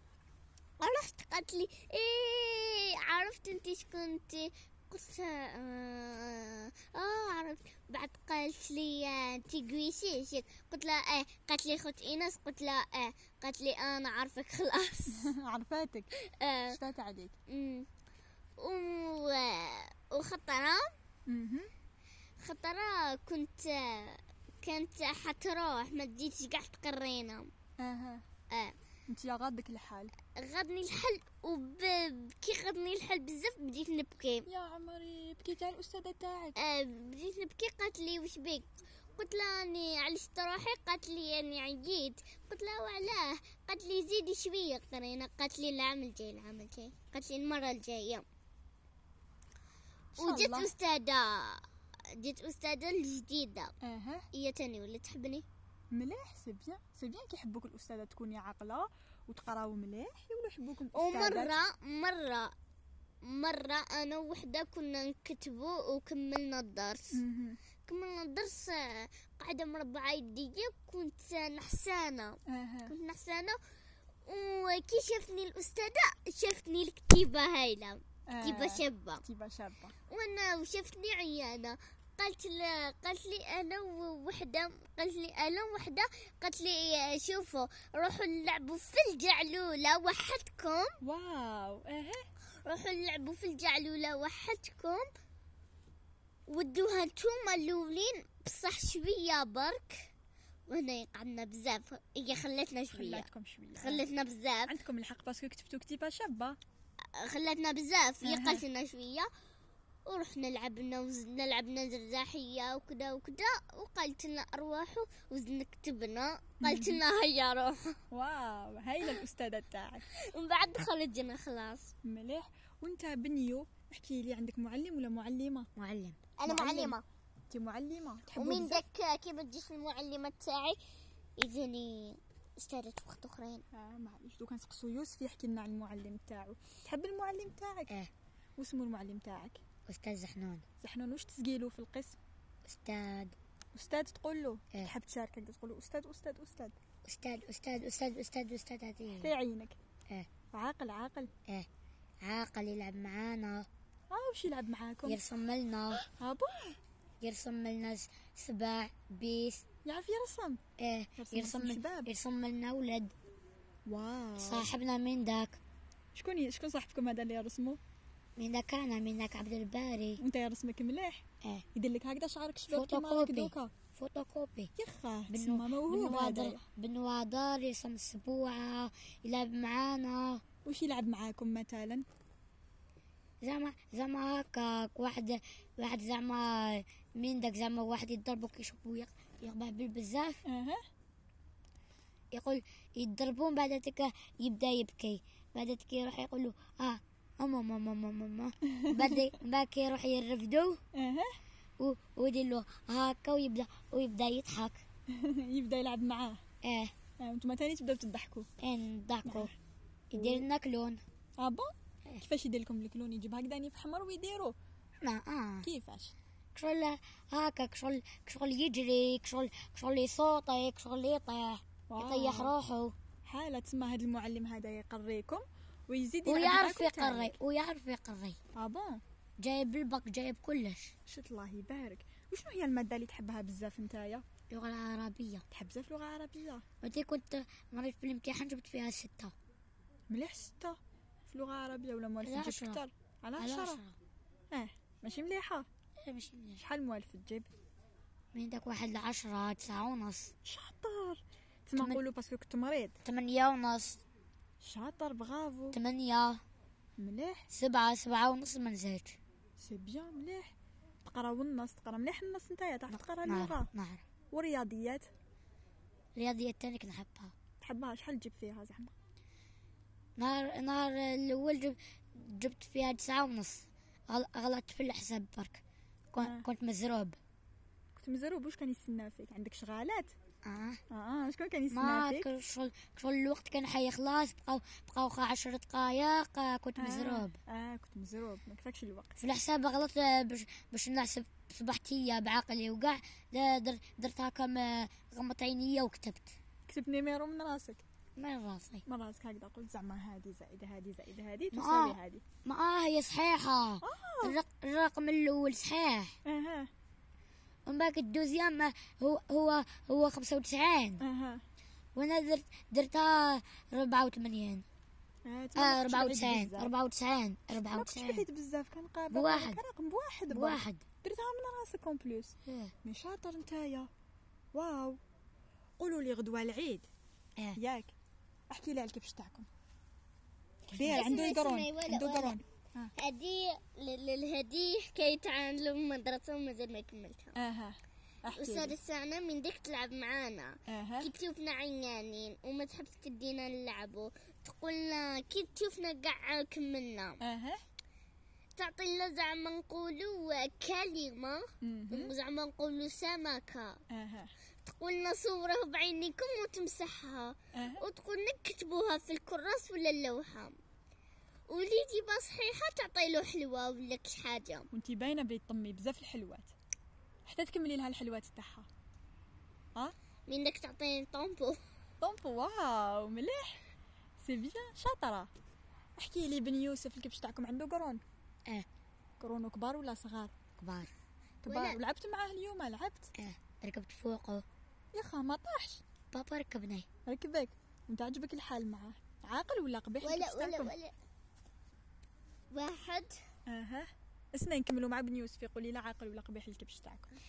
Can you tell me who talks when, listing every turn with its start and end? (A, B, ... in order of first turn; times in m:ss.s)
0:00.8-0:15.3 A
0:15.1-0:16.1 B
0:16.2-0:16.8 A
0:16.7-0:17.4 B
0:17.5-0:17.9 A
0:18.6-0:21.0 A
0:21.3-0:21.7 B
0:22.4-0:27.5 A
0:27.8-0:28.2 B
0:28.5-0:28.8 A
0:29.1-0:30.1 B
0:30.4-0:34.5 A
0:34.5-0:36.6 B
0:36.6-0:48.2 A
0:50.2-0:50.7 B
0:50.2-0:53.7 A
0:53.8-0:54.3 B
0:54.3-0:55.4 A
0:55.9-1:01.6 B
1:01.0-1:02.5 A
1:03.2-1:07.2 A
1:07.1-1:07.6 B
1:07.9-1:13.6 A
1:12.5-1:12.9 B
1:14.3-1:19.2 A
1:18.3-1:20.0 B
1:20.1-1:31.0 A
1:31.0-1:32.2 B
1:32.6-1:35.1 A
1:36.5-1:40.1 A
1:40.7-1:44.8 A
1:42.9-1:44.1 B
1:44.7-1:46.6 B
1:47.2-1:49.3 A
1:48.2-1:48.6 B
1:50.1-1:58.0 A
1:56.6-1:57.0 B
1:58.1-2:00.1 B
2:00.2-2:01.9 A
2:02.0-2:05.7 B
2:05.8-2:06.2 C
2:06.4-2:07.0 A
2:06.5-2:07.0 B
2:07.5-2:08.8 B
2:08.4-2:10.8 A
2:11.4-2:13.6 A
2:13.7-2:17.9 B
2:18.6-2:19.6 B
2:19.9-2:20.6 C
2:20.8-2:22.2 B
2:22.6-2:23.4 C
2:23.7-2:26.8 B
2:27.0-2:29.3 C
2:29.2-2:29.8 B
2:30.5-2:31.3 B
2:32.2-2:33.7 C
2:34.1-2:35.2 B
2:35.0-2:36.1 C
2:36.1-2:36.8 B
2:37.2-2:39.6 C
2:39.8-2:40.6 B
2:40.8-2:43.1 C
2:41.2-2:42.1 B
2:43.9-2:44.7 B
2:44.4-2:45.6 C
2:46.2-2:47.8 B
2:48.4-2:50.2 C
2:50.2-2:51.2 B
2:51.8-2:53.7 B
2:52.7-2:54.7 C
2:54.8-2:56.6 B
2:55.3-3:00.4 C
3:00.6-3:02.0 B
3:03.4-3:10.4 C
3:10.5-3:10.8 B
3:12.3-3:20.8 C
3:18.7-3:19.2 B
3:21.0-3:21.3 B
3:21.8-3:24.8 C
3:25.1-3:26.4 B
3:26.6-3:26.9 C
3:27.2-3:28.5 B
3:28.6-3:29.5 C
3:29.2-3:29.5 B
3:30.1-3:31.0 C
3:30.2-3:30.4 B
3:31.4-3:34.6 B
3:35.0-3:35.7 C
3:35.6-3:36.1 B
3:36.6-3:42.9 C
3:41.9-3:42.5 B
3:43.3-3:47.4 B
3:46.2-3:48.4 C
3:48.6-3:49.0 B
3:49.4-3:50.9 C
3:51.1-3:54.2 B
3:54.5-3:55.4 C
3:55.5-3:56.6 B
3:56.8-3:59.3 C
4:00.1-4:03.8 B
4:02.2-4:02.8 C
4:03.4-4:04.0 C
4:04.5-4:05.7 B
4:06.0-4:06.6 C
4:06.6-4:07.5 B
4:08.3-4:10.3 C
4:10.4-4:13.0 B
4:13.0-4:14.0 C
4:14.6-4:15.8 B
4:15.7-4:16.4 C
4:17.0-4:17.5 B
4:17.5-4:19.2 C
4:19.6-4:20.5 B
4:21.0-4:23.7 B
4:22.9-4:24.1 C
4:24.3-4:25.1 B
4:26.2-4:27.3 C
4:27.6-4:28.9 B
4:30.2-4:37.2 C
4:36.2-4:36.5 B
4:38.0-4:40.1 B
4:40.4-4:40.8 C
4:40.9-4:42.3 B
4:41.7-4:47.4 C
4:46.8-4:49.2 B
4:49.2-4:56.3 C
4:56.7-4:57.8 B
4:58.2-4:58.8 C
4:58.9-5:02.2 B
5:01.5-5:06.2 C
5:03.8-5:04.4 B
5:06.3-5:06.7 B
5:07.7-5:11.0 C
5:11.0-5:11.4 B
5:12.0-5:14.6 C
5:15.3-5:16.7 B
5:15.6-5:18.2 C
5:17.6-5:23.9 B
5:19.1-5:19.6 C
5:20.3-5:20.8 C
5:22.4-5:22.7 C
5:24.5-5:25.0 B
5:25.8-5:26.9 B
5:27.6-5:27.9 B
5:28.5-5:29.5 B
5:30.7-5:32.9 B
5:30.8-5:32.4 A
5:33.0-5:37.4 A
5:37.4-5:38.8 B
5:38.3-5:47.2 A
5:40.7-5:41.1 B
5:47.2-5:47.6 B
5:48.6-5:53.8 A
5:51.6-5:52.1 B
5:53.9-5:54.3 B
5:54.6-6:00.6 A
5:57.5-5:57.8 B
6:01.5-6:04.7 A
6:04.7-6:06.5 B
6:07.3-6:08.7 B
6:10.3-6:11.6 A
6:12.0-6:13.6 B
6:14.2-6:15.3 B
6:16.0-6:18.0 B
6:19.2-6:20.3 B
6:20.6-6:20.9 C
6:21.4-6:23.1 B
6:21.5-6:21.8 A
6:23.2-6:24.4 C
6:24.9-6:25.8 B
6:26.1-6:26.9 C
6:27.1-6:30.7 B
6:30.0-6:30.9 A
6:32.5-6:33.2 A
6:33.5-6:37.1 B